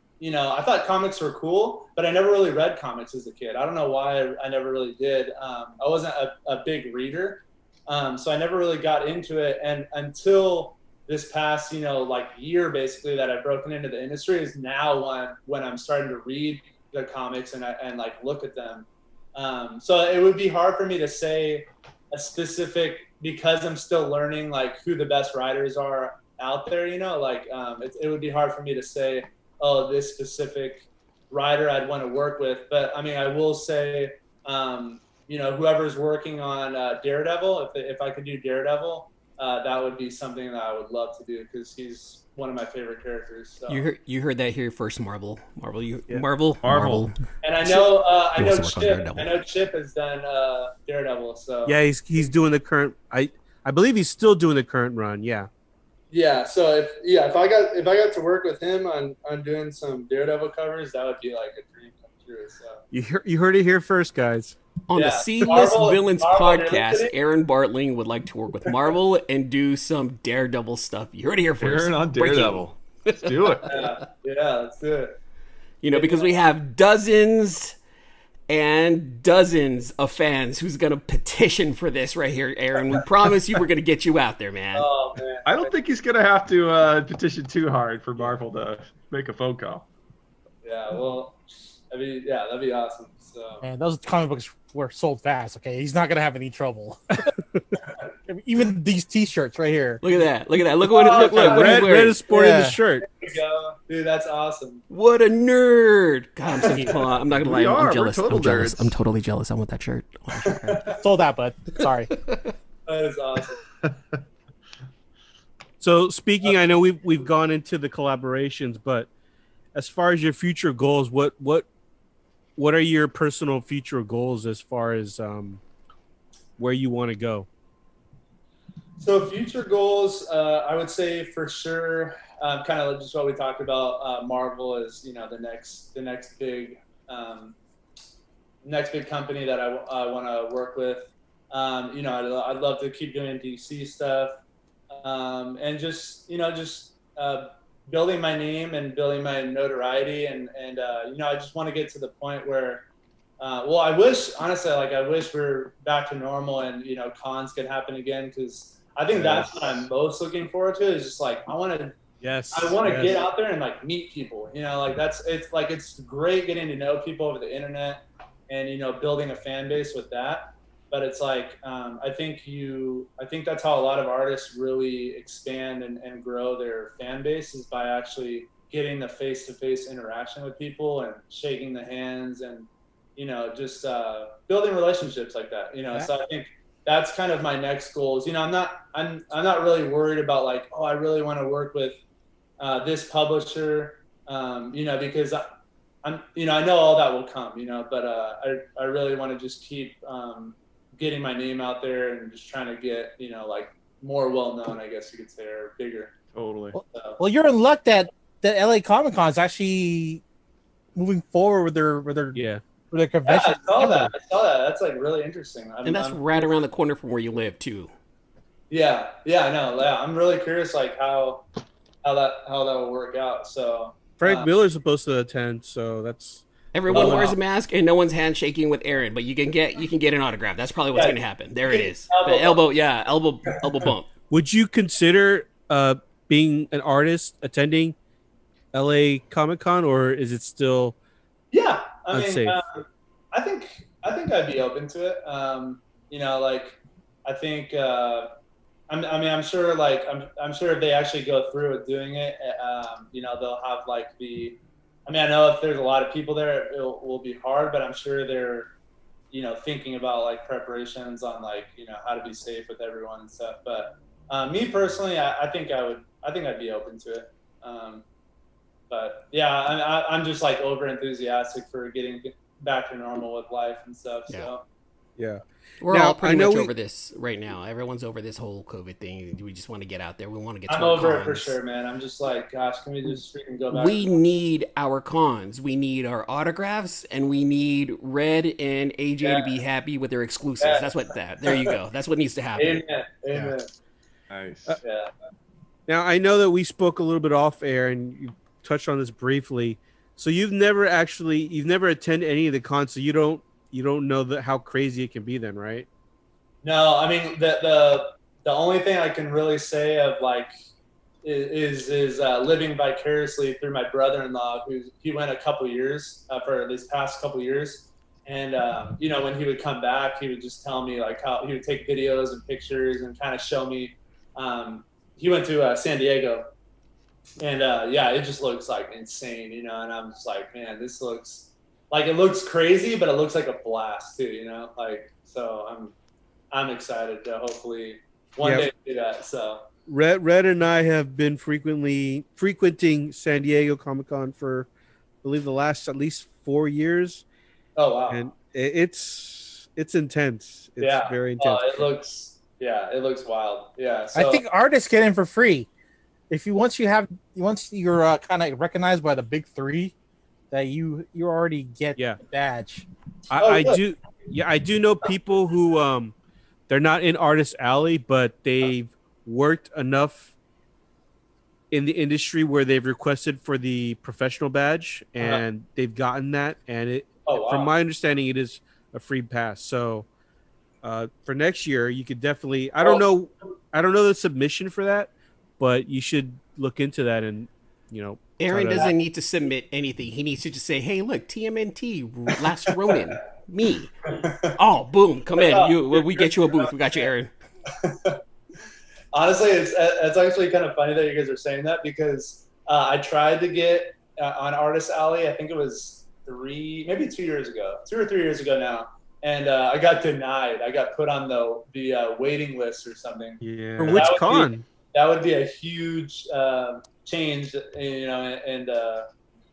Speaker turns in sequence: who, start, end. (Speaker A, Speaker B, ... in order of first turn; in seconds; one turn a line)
Speaker A: 0.2-43.8
Speaker B: 43.7-49.3
Speaker C: 46.6-47.1
Speaker A: 47.4-51.8
Speaker D: 51.6-55.5
Speaker A: 56.1-62.8
Speaker D: 62.9-64.6
Speaker B: 64.9-73.8
Speaker A: 64.9-67.1
Speaker C: 71.6-73.8
Speaker A: 73.7-75.1
Speaker B: 75.8-77.8
Speaker A: 75.9-76.3
Speaker B: 78.5-84.9
Speaker A: 84.7-85.7
Speaker C: 85.4-89.9
Speaker A: 90.6-93.6
Speaker E: 93.6-97.2
Speaker E: 98.3-100.0
Speaker B: 100.0-102.2
Speaker A: 101.0-101.6
Speaker E: 101.1-102.8
Speaker D: 101.2-103.1
Speaker A: 103.1-104.8
Speaker B: 104.9-111.0
Speaker E: 106.6-107.0
Speaker C: 107.3-108.9
Speaker E: 110.8-112.1
Speaker B: 112.1-112.5
Speaker A: 112.8-113.6
Speaker D: 115.8-119.1
Speaker D: 119.7-121.7
Speaker D: 122.5-125.6
Speaker D: 126.6-127.5
Speaker A: 129.0-137.6
Speaker A: 138.6-144.3
Speaker A: 144.9-152.8
Speaker A: 153.4-161.9
Speaker C: 159.2-159.5
Speaker D: 162.2-163.2
Speaker A: 162.5-192.0
Speaker A: 192.6-195.5
Speaker A: 196.0-206.1
Speaker C: 206.3-206.8
Speaker E: 206.7-210.2
Speaker A: 206.9-207.2
Speaker E: 210.9-212.4
Speaker D: 212.3-212.6
Speaker E: 212.9-214.1
Speaker A: 213.2-216.5
Speaker B: 215.8-217.9
Speaker A: 218.7-221.4
Speaker A: 222.0-224.5
Speaker D: 224.2-227.3
Speaker B: 226.7-234.1
Speaker A: 226.9-227.3
Speaker A: 230.9-232.6
Speaker D: 234.3-237.9
Speaker D: 238.7-240.9
Speaker A: 241.5-248.3
Speaker D: 242.1-242.6
Speaker A: 248.9-258.7
Speaker A: 259.3-268.0
Speaker A: 268.9-274.6
Speaker D: 275.2-276.7
Speaker B: 275.8-281.6
Speaker A: 280.7-284.2
Speaker B: 283.7-292.8
Speaker A: 289.2-289.5
Speaker A: 290.6-290.9
Speaker A: 291.4-291.7
Speaker A: 292.6-293.7
Speaker C: 294.3-294.8
Speaker A: 294.8-295.1
Speaker D: 295.9-305.9
Speaker A: 306.6-310.5
Speaker A: 311.2-326.5
Speaker A: 327.4-335.9
Speaker A: 336.5-339.6
Speaker D: 338.4-338.7
Speaker D: 339.9-344.7
Speaker D: 345.2-347.2
Speaker A: 347.8-348.2
Speaker D: 348.1-351.8
Speaker A: 350.8-354.4
Speaker E: 354.1-355.7
Speaker E: 356.3-359.9
Speaker E: 360.5-362.9
Speaker D: 363.3-366.1
Speaker A: 363.4-363.8
Speaker D: 366.7-370.3
Speaker D: 371.7-380.1
Speaker A: 377.2-377.7
Speaker D: 380.8-388.9
Speaker B: 388.4-397.3
Speaker A: 394.1-394.6
Speaker A: 395.5-397.1
Speaker A: 397.7-398.2
Speaker A: 399.1-413.4
Speaker D: 413.4-414.6
Speaker A: 413.9-419.1